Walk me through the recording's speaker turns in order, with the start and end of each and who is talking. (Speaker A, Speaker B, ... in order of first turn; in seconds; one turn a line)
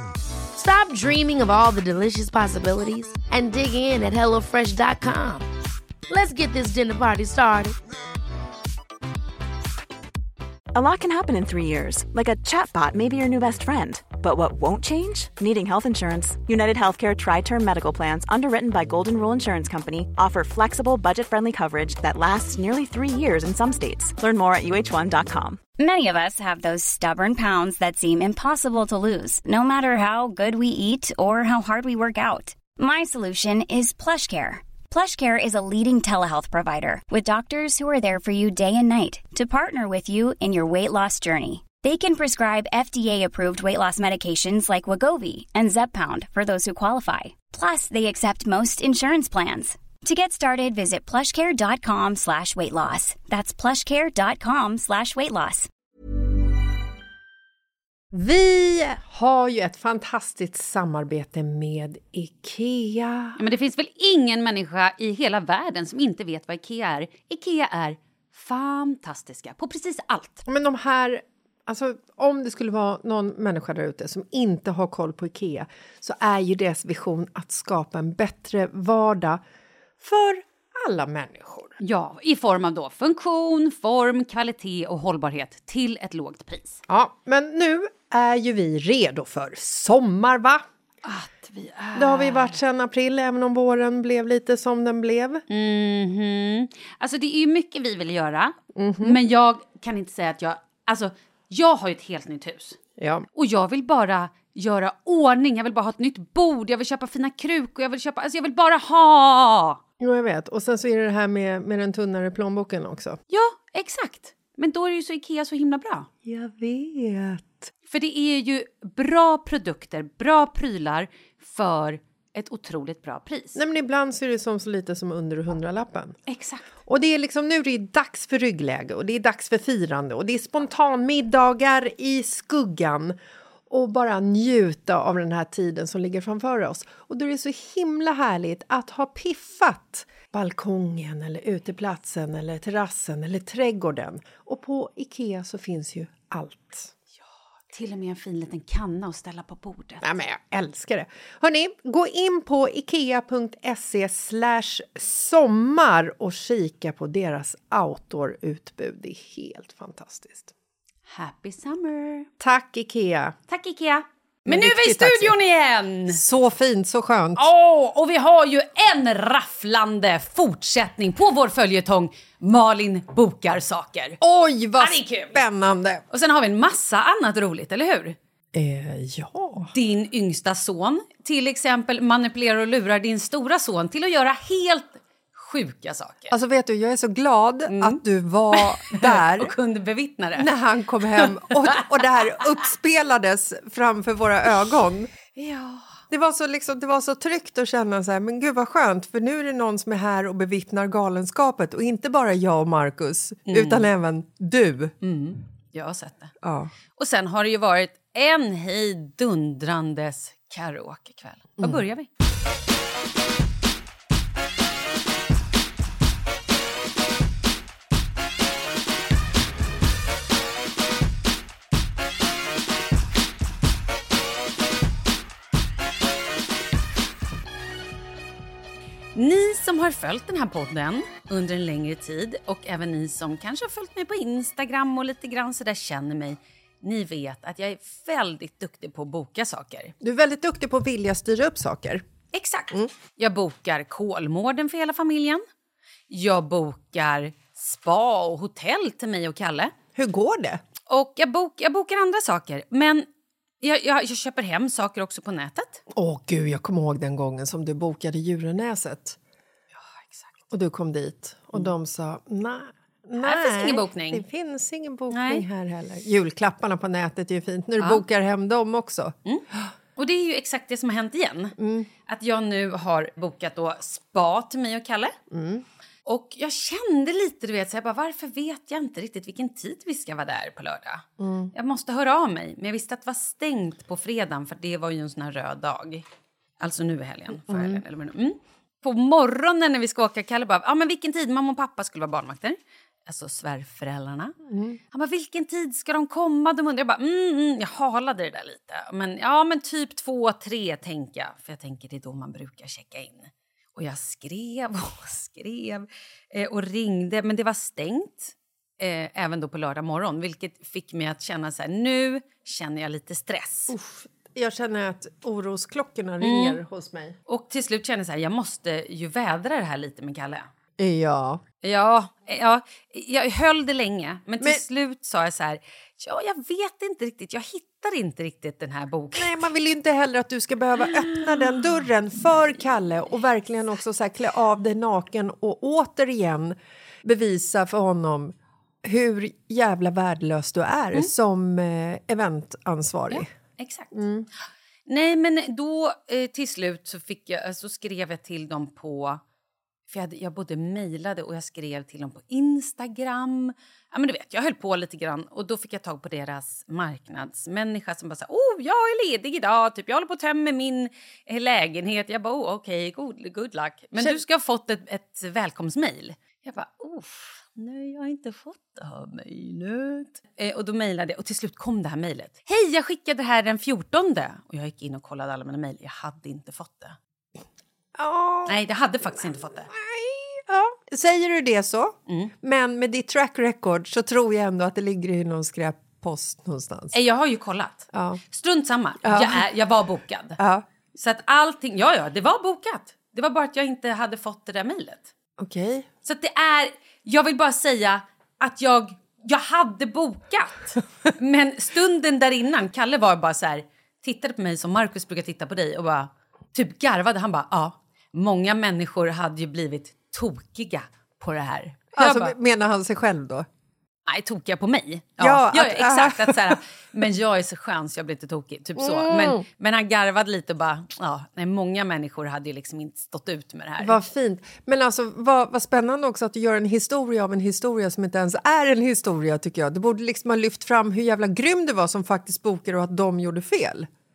Speaker A: 0.5-5.5
Speaker A: 6.1-7.8
Speaker B: 10.7-25.6
Speaker C: 25.8-55.7
Speaker D: 58.1-63.4
Speaker E: 63.4-70.4
Speaker D: 70.5-79.4
Speaker D: 80.0-81.8
Speaker E: 81.8-86.8
Speaker D: 86.9-90.6
Speaker E: 91.0-92.6
Speaker D: 91.9-95.4
Speaker E: 95.5-102.8
Speaker D: 98.7-99.2
Speaker D: 103.0-103.2
Speaker E: 103.3-109.8
Speaker D: 110.0-113.2
Speaker E: 113.3-116.1
Speaker D: 116.2-117.7
Speaker E: 117.9-123.6
Speaker D: 123.5-126.2
Speaker E: 126.3-126.7
Speaker D: 126.8-133.2
Speaker D: 133.7-146.9
Speaker E: 147.7-150.0
Speaker D: 150.0-160.5
Speaker E: 161.1-162.3
Speaker D: 162.4-163.3
Speaker E: 163.5-166.2
Speaker D: 164.4-165.3
Speaker D: 166.1-167.5
Speaker E: 167.3-174.2
Speaker D: 174.2-176.0
Speaker E: 174.8-175.4
Speaker E: 176.1-178.2
Speaker D: 178.5-179.7
Speaker E: 179.7-186.3
Speaker D: 186.3-189.5
Speaker E: 187.7-188.0
Speaker E: 188.5-190.5
Speaker D: 190.4-195.1
Speaker E: 191.2-191.8
Speaker E: 195.3-195.9
Speaker D: 196.1-204.9
Speaker E: 203.5-203.9
Speaker E: 205.0-206.3
Speaker D: 206.4-206.7
Speaker E: 206.9-212.1
Speaker E: 229.1-239.9
Speaker D: 240.0-242.0
Speaker E: 242.3-245.4
Speaker E: 246.1-249.7
Speaker D: 249.9-250.6
Speaker E: 250.9-253.1
Speaker E: 253.6-255.8
Speaker D: 255.9-259.2
Speaker E: 260.0-260.3
Speaker D: 260.5-269.7
Speaker E: 263.2-264.2
Speaker E: 265.1-265.4
Speaker E: 269.2-275.2
Speaker D: 271.6-271.9
Speaker D: 275.3-275.6
Speaker E: 276.1-286.0
Speaker D: 281.2-281.5
Speaker E: 286.6-294.3
Speaker D: 287.5-287.8
Speaker D: 294.5-294.8
Speaker E: 294.9-313.7
Speaker D: 313.7-317.1
Speaker E: 316.2-316.6
Speaker E: 317.3-320.5
Speaker D: 320.8-321.4
Speaker E: 321.6-329.4
Speaker D: 329.1-343.3
Speaker E: 343.1-343.9
Speaker D: 343.9-344.3
Speaker E: 344.9-349.2
Speaker E: 349.9-376.9
Speaker D: 363.9-364.2
Speaker D: 377.9-378.6
Speaker E: 378.4-379.7
Speaker D: 379.2-386.9
Speaker E: 382.1-382.3
Speaker E: 386.9-390.4
Speaker D: 387.9-388.2
Speaker D: 389.0-389.4
Speaker D: 390.4-390.6
Speaker E: 390.9-395.1
Speaker D: 395.4-395.9
Speaker E: 396.0-412.3
Speaker D: 411.9-413.5
Speaker E: 414.1-424.0
Speaker D: 415.2-416.6
Speaker D: 418.8-419.4
Speaker D: 423.8-433.9